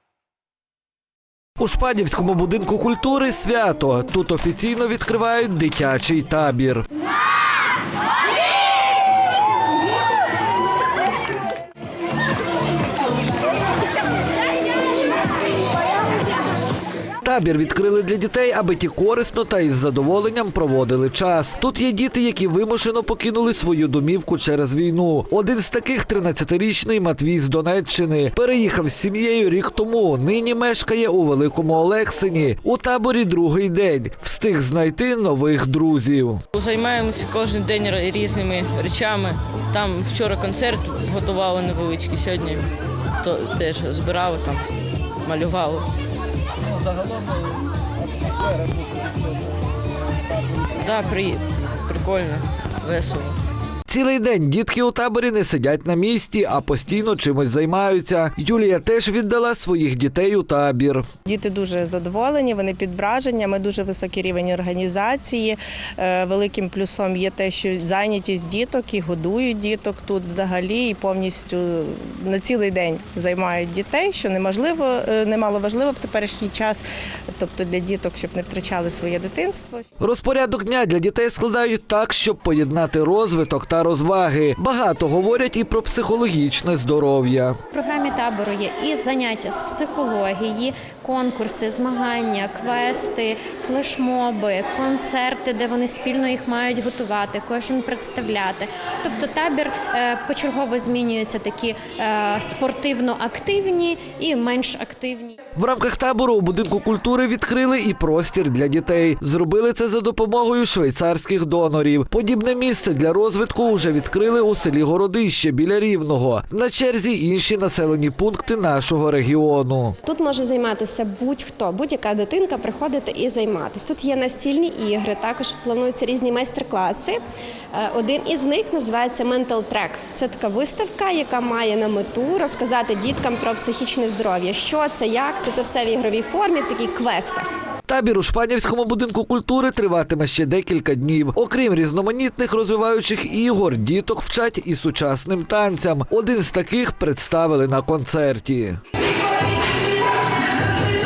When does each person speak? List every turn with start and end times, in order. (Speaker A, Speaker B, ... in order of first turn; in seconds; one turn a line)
Speaker A: 1.6-6.8
Speaker A: 17.2-36.4
Speaker B: 36.5-42.7
Speaker B: 43.2-44.6
Speaker B: 45.2-45.9
Speaker B: 50.7-53.4
Speaker A: 53.9-61.1
Speaker C: 61.2-79.8
Speaker A: 80.0-87.6
Speaker D: 87.7-105.3
Speaker A: 105.5-120.0
Speaker E: 120.0-127.2
Speaker E: 127.7-137.5
Speaker A: 137.8-148.8